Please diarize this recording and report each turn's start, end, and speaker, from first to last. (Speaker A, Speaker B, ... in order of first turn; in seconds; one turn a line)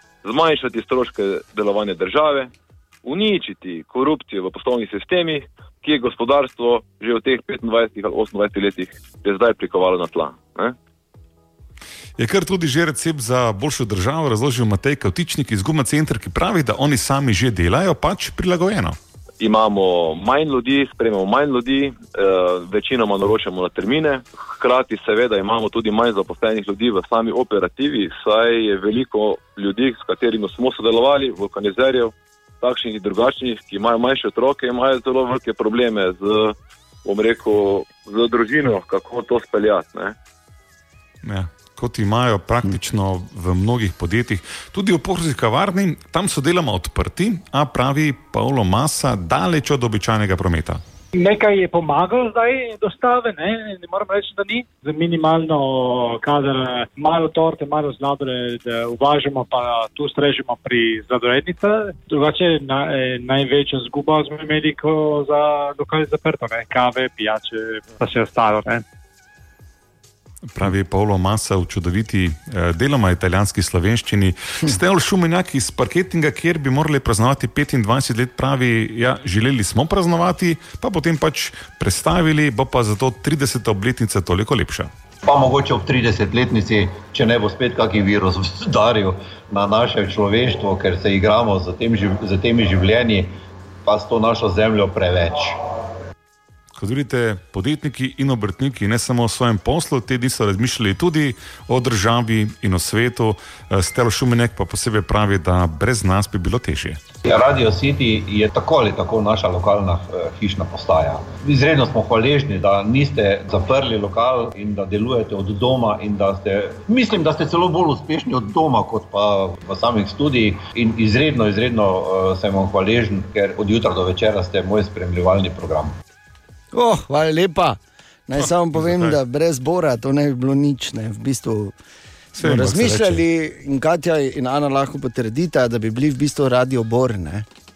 Speaker A: 0.2-2.5
Speaker A: 3.0-10.7
Speaker B: 12.2-19.0
Speaker A: 19.4-40.1
Speaker B: 41.2-50.8
Speaker C: 51.1-68.8
Speaker B: 70.5-84.9
Speaker D: 85.2-93.3
Speaker D: 93.8-95.6
Speaker B: 96.8-107.0
Speaker D: 107.2-125.9
Speaker E: 126.7-131.8
Speaker B: 128.3-129.2
Speaker B: 132.3-133.2
Speaker E: 132.4-137.4